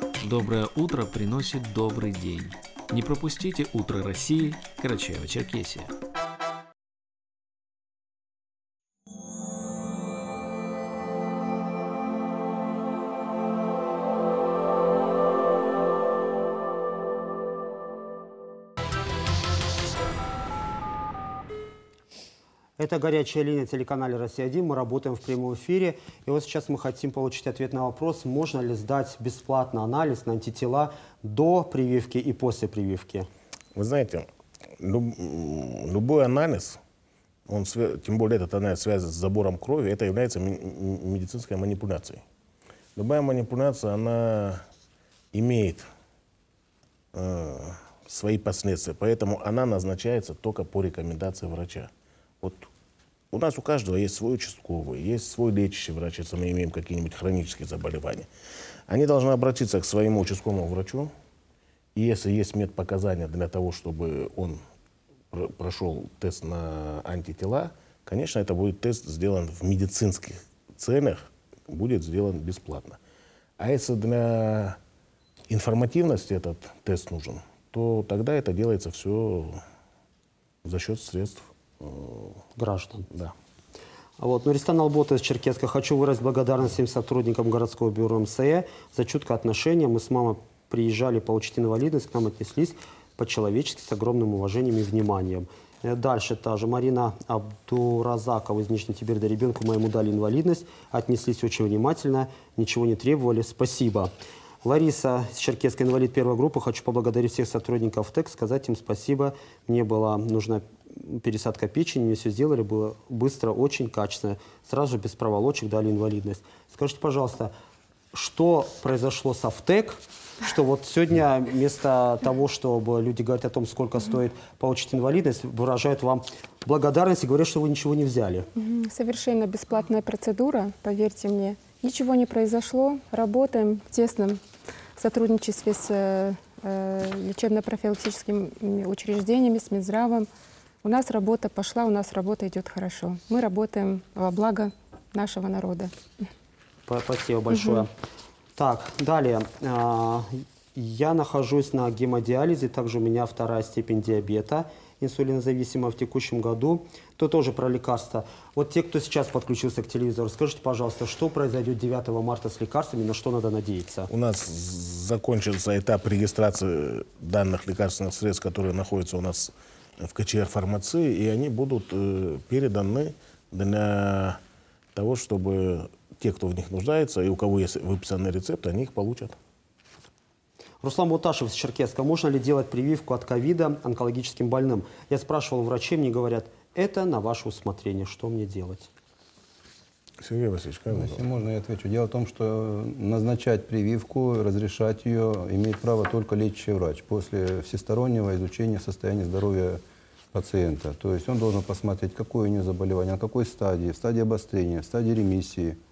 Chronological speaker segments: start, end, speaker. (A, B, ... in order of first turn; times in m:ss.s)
0:00.2-0:05.9 A
0:22.8-0:33.3 B
0:33.8-0:34.3 C
0:34.8-0:36.8 C
0:37.5-0:42.2 C
0:43.0-0:44.6 C
0:45.3-0:45.9 C
0:47.1-0:52.7 C
0:53.3-0:58.3 C
0:58.9-1:01.1 C
1:02.0-1:04.6 C
1:05.3-1:13.0 C
1:13.6-1:14.8 C
1:15.5-1:19.6 C
1:20.6-1:22.4 C
1:22.6-1:23.1 B
1:24.2-1:44.1 B
1:44.6-1:57.5 B
1:58.1-2:08.5 B
2:08.6-2:14.4 D
2:15.0-2:20.3 D
2:20.8-2:25.9 D
2:26.9-2:27.9 B
2:27.5-2:27.8 D
2:28.6-2:44.1 B
2:44.1-2:54.4 C
2:54.9-2:59.4 C
3:00.8-3:08.9 B
3:10.2-3:11.2 C
3:10.9-3:19.8 E
3:20.3-3:25.8 E